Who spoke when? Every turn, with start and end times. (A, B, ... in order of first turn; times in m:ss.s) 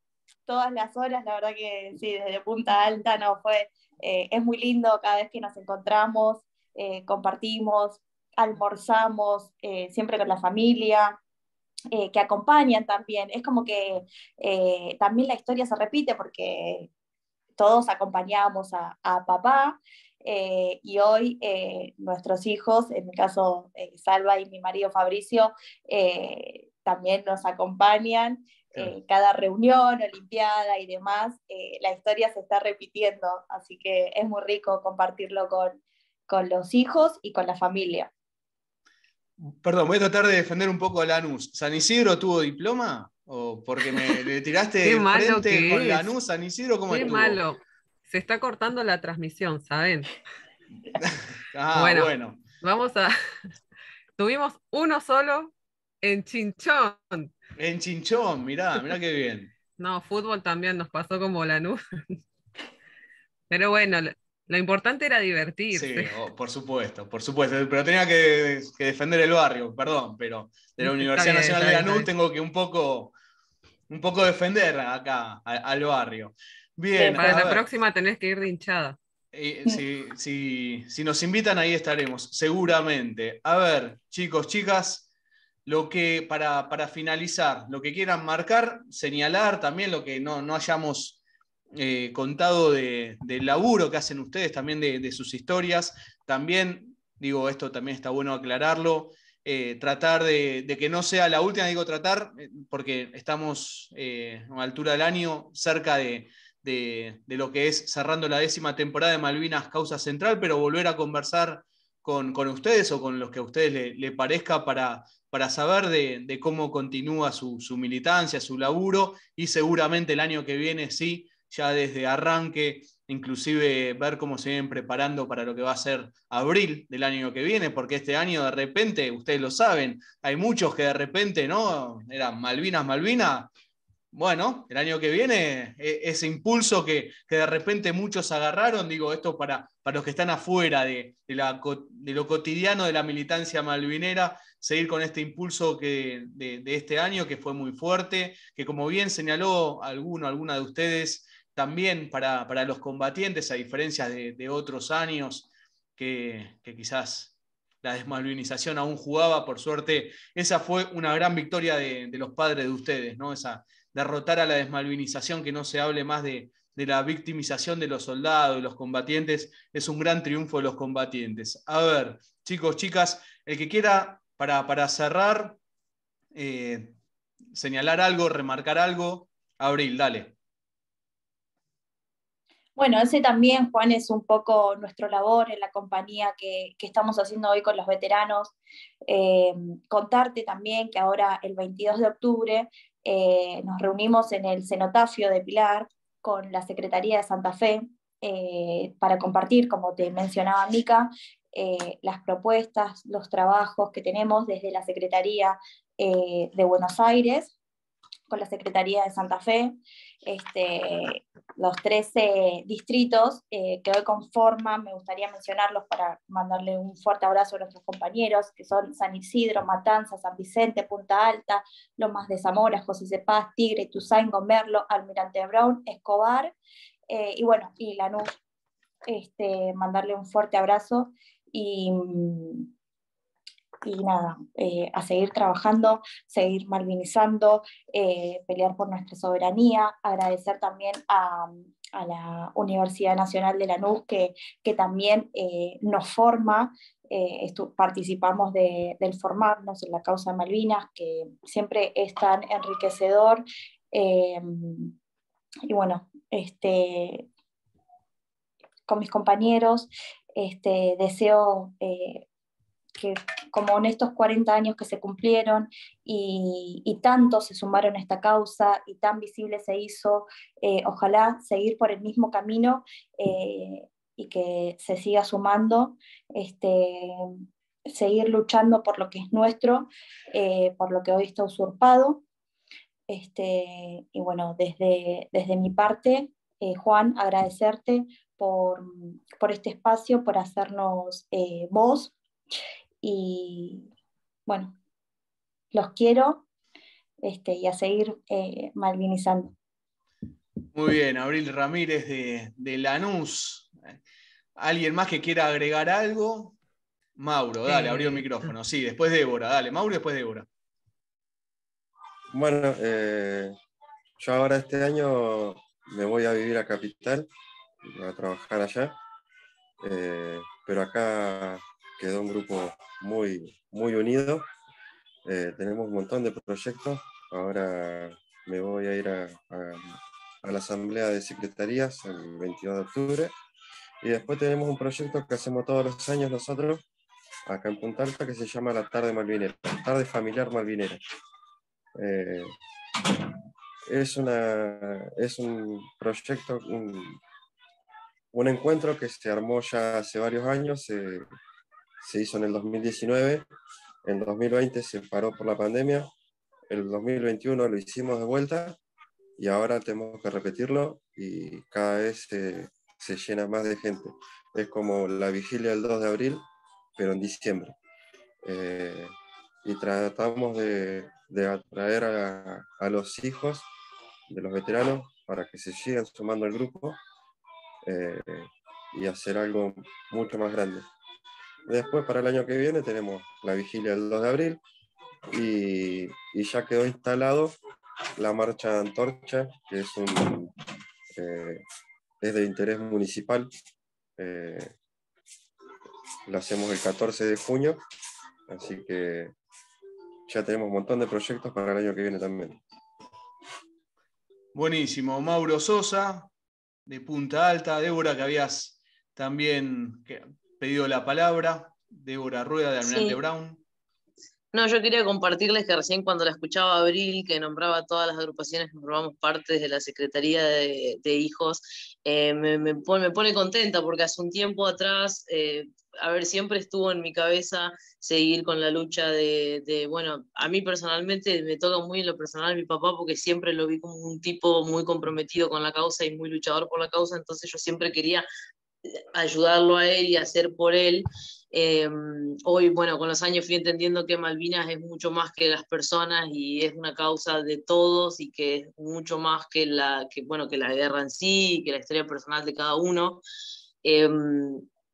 0:00.5-0:11.2 A
0:11.9-0:16.9 A
0:17.6-0:38.1 A
0:39.4-0:47.4 B
0:44.8-0:46.1 C
0:46.9-0:50.1 C
0:51.0-0:52.4 B
0:51.7-0:53.1 C
0:54.2-0:57.3 C
0:57.6-0:59.5 B
0:59.8-1:02.2 C
1:03.5-1:06.1 C
1:05.7-1:13.1 B
1:10.8-1:12.1 C
1:13.9-1:17.6 B
1:17.0-1:17.4 A
1:17.1-1:19.0 C
1:19.3-1:25.1 B
1:25.6-1:31.2 B
1:31.8-2:13.5 B
2:14.1-2:55.6 B
2:56.3-2:56.9 B
2:57.5-3:00.3 B
3:02.8-3:08.5 A
3:09.0-3:27.5 A
3:28.3-3:29.7 A
3:30.2-3:46.5 A
3:47.1-3:48.3 A
3:49.0-3:52.7 A
3:53.8-4:14.9 A
4:15.7-4:17.3 A
4:18.9-4:22.2 A
4:23.0-4:37.3 A
4:37.8-4:42.2 A
4:43.1-4:52.1 A
4:53.0-4:53.9 A
4:54.5-4:54.8 A
4:55.7-4:56.4 A
4:57.2-4:59.5 A
5:00.7-5:04.0 B
5:04.6-5:06.6 B
5:07.2-5:10.5 B
5:07.7-5:08.3 C
5:12.3-5:13.6 D
5:14.2-5:17.3 D
5:17.8-5:19.0 D
5:19.8-5:24.4 D
5:25.3-5:33.3 D
5:34.0-5:36.8 D
5:37.5-5:41.0 D
5:42.0-5:42.6 D
5:43.9-5:47.2 D
5:48.3-5:51.3 D
5:52.0-5:53.4 D
5:54.0-5:56.1 D
5:56.7-5:58.8 D
5:59.4-6:06.4 D
6:07.0-6:07.8 D
6:08.4-6:13.7 D
6:14.3-6:17.0 D
6:17.8-6:20.8 D
6:21.7-6:24.6 D
6:25.3-6:27.6 D
6:28.2-6:30.5 D
6:31.2-6:31.6 D
6:32.2-6:33.5 D
6:34.2-6:34.7 D
6:36.3-6:37.8 D
6:38.5-6:39.3 D
6:40.3-6:42.6 D
6:44.5-6:46.3 B
6:46.9-6:53.6 B
6:52.8-6:53.2 E
6:54.5-7:18.3 E
7:19.1-7:33.2 E
7:33.8-7:34.6 E